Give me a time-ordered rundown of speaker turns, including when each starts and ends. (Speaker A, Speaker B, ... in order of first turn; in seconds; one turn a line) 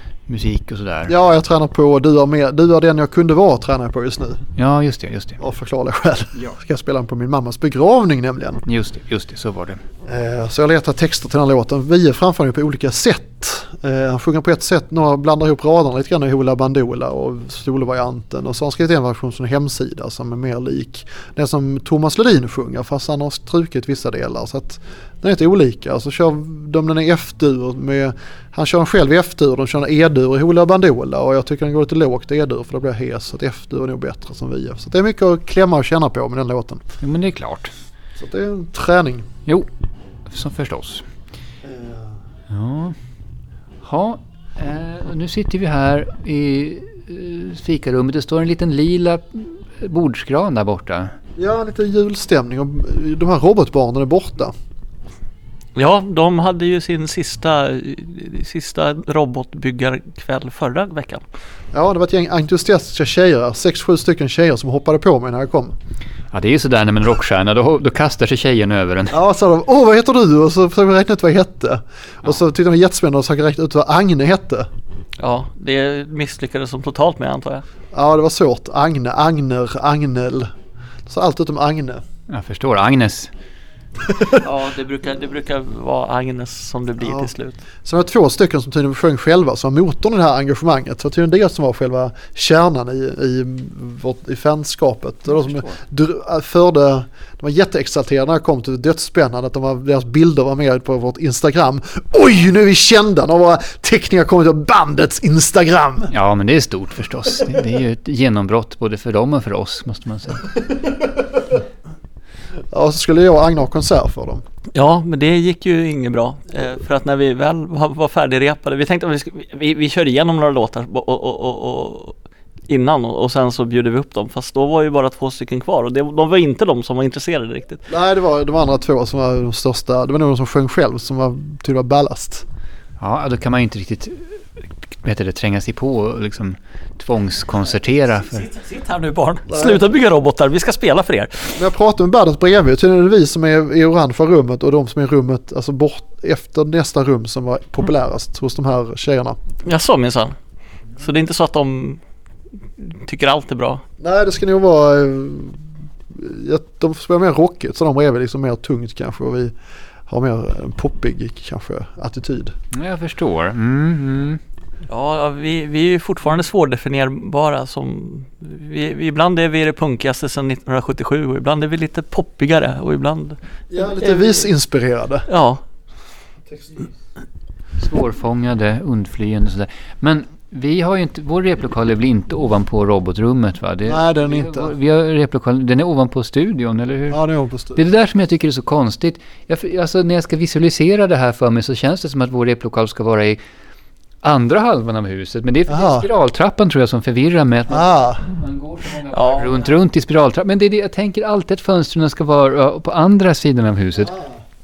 Speaker A: 0.3-1.1
Speaker B: 1.1-4.4
Speaker A: 4.5-5.4
Speaker B: 5.4-8.6
Speaker A: 8.7-9.8
Speaker B: 10.0-36.8
Speaker A: 37.0-37.7
Speaker B: 38.2-39.3
Speaker A: 40.3-41.0
Speaker B: 41.6-42.1
Speaker A: 42.5-43.0
Speaker A: 43.8-51.1
Speaker B: 51.4-54.5
Speaker C: 55.8-61.2
Speaker B: 61.7-65.7
Speaker A: 66.3-69.1
Speaker B: 69.1-74.7
Speaker C: 75.2-77.6
Speaker B: 77.9-80.5
Speaker B: 81.1-82.0
Speaker A: 82.3-83.3
Speaker B: 84.1-84.4
Speaker C: 84.3-87.6
Speaker B: 87.0-87.3
Speaker B: 87.8-106.1
Speaker A: 95.3-95.8
Speaker A: 106.1-110.5
Speaker B: 112.7-114.4
Speaker C: 114.7-122.2
Speaker C: 122.7-127.8
Speaker B: 127.9-132.4
Speaker A: 133.0-138.5
Speaker C: 138.2-141.6
Speaker B: 139.5-139.8
Speaker B: 141.5-149.4
Speaker C: 149.6-150.3
Speaker C: 151.0-152.0
Speaker C: 152.8-153.8
Speaker B: 154.0-155.6
Speaker B: 156.1-159.5
Speaker B: 160.1-162.5
Speaker A: 162.7-164.4
Speaker C: 164.9-174.5
Speaker B: 173.7-175.2
Speaker C: 175.3-175.6
Speaker B: 176.5-176.8
Speaker A: 177.8-187.2
Speaker B: 183.8-184.7
Speaker B: 187.1-187.8
Speaker A: 187.8-193.4
Speaker A: 194.2-204.1
Speaker B: 195.7-196.1
Speaker B: 197.7-198.2
Speaker C: 199.1-199.7
Speaker B: 204.1-204.4